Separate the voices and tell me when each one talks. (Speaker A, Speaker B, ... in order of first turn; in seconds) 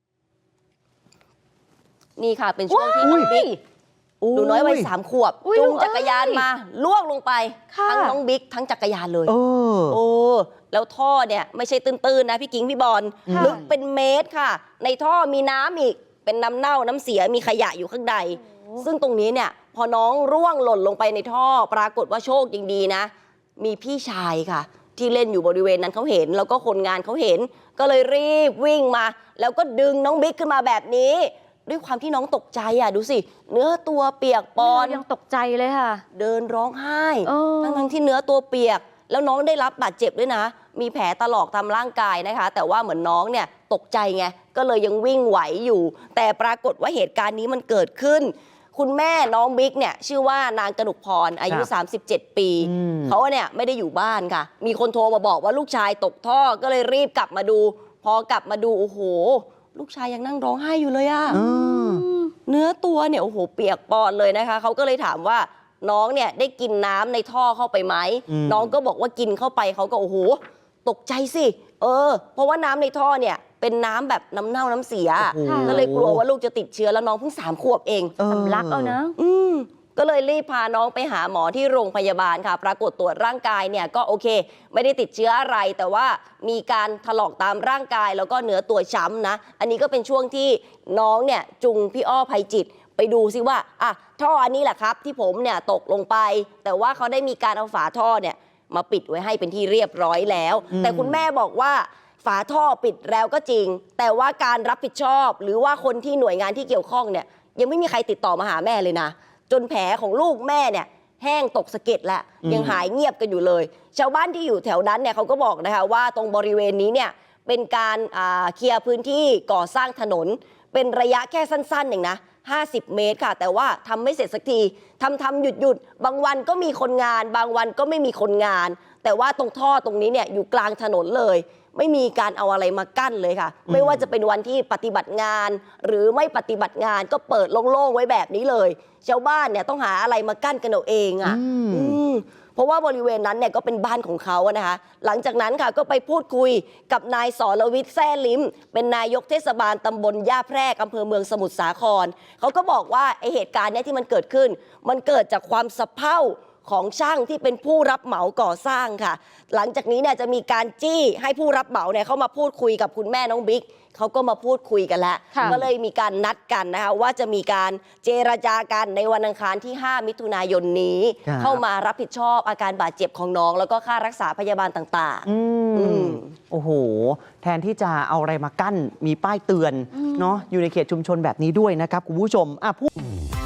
Speaker A: 2.2-3.6, 4.3-9.3, 9.9-35.0, 36.1-61.4, 62.5-78.1, 79.2-176.3
Speaker B: 2.7-3.5, 5.4-6.4, 7.7-8.2, 13.3-13.6, 18.4-18.8, 34.6-36.0, 37.2-37.9, 61.3-62.3, 75.4-75.8, 78.2-79.2, 165.3-165.6, 180.0-180.3
Speaker C: 3.0-3.3, 4.2-4.9, 9.2-10.0, 13.3-13.7, 52.6-53.1, 61.3-62.0, 68.3-68.7, 75.2-76.2, 78.2-79.0, 100.7-101.2, 112.4-112.8, 133.7-134.0, 141.2-142.0, 171.2-171.6, 175.2-182.9